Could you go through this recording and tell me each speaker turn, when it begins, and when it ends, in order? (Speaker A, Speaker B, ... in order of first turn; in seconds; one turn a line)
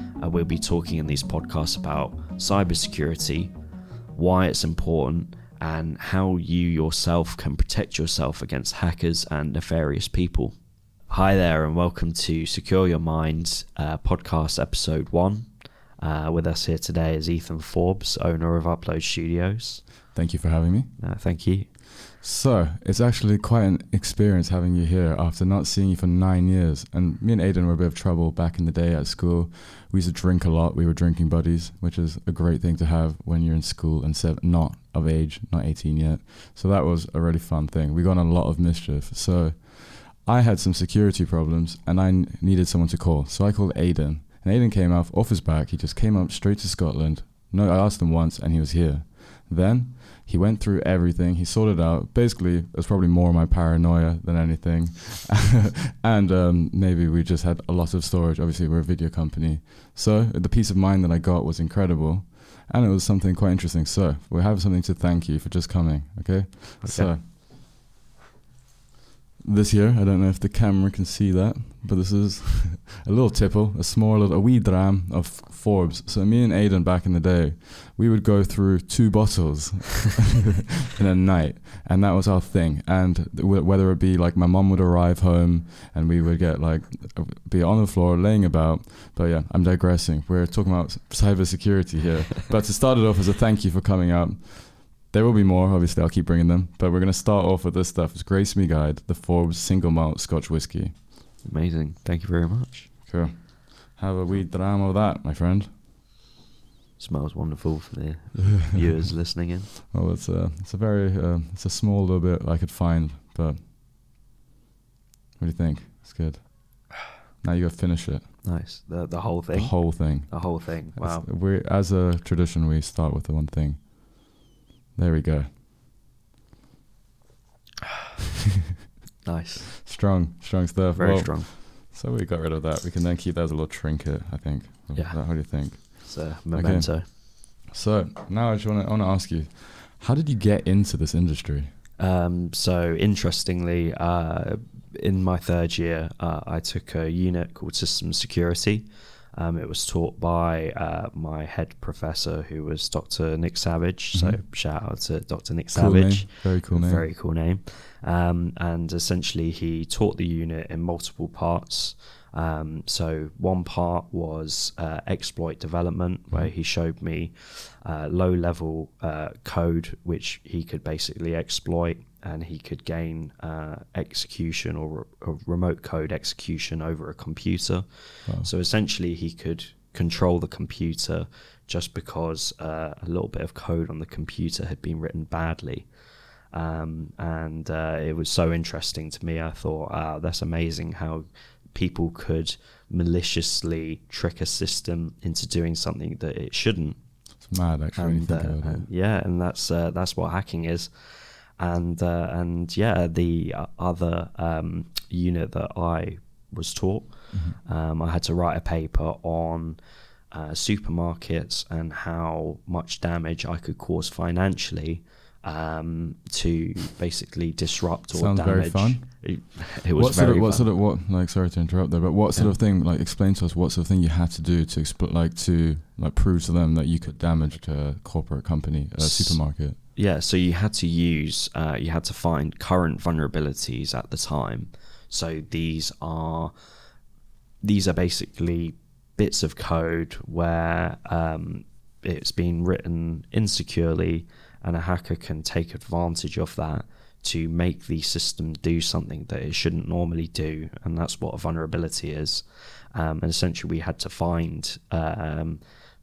Speaker A: 0.2-3.5
Speaker A: 4.1-19.9
Speaker B: 20.1-21.0
Speaker A: 21.0-21.7
Speaker B: 22.1-67.3
Speaker A: 66.8-67.1
Speaker B: 69.4-101.0
Speaker A: 101.4-102.9
Speaker B: 103.1-105.7
Speaker A: 107.0-109.7
Speaker B: 109.9-113.7
Speaker B: 115.4-118.4
Speaker A: 118.4-121.3
Speaker B: 119.5-124.4
Speaker B: 125.0-125.5
Speaker A: 129.2-129.8
Speaker B: 129.8-141.7
Speaker A: 130.9-131.5
Speaker A: 134.9-137.1
Speaker A: 142.0-220.7
Speaker B: 154.1-154.4
Speaker B: 155.7-157.1
Speaker B: 197.4-198.9
Speaker B: 207.3-207.6
Speaker B: 218.1-229.8
Speaker A: 229.0-236.9
Speaker A: 237.6-255.6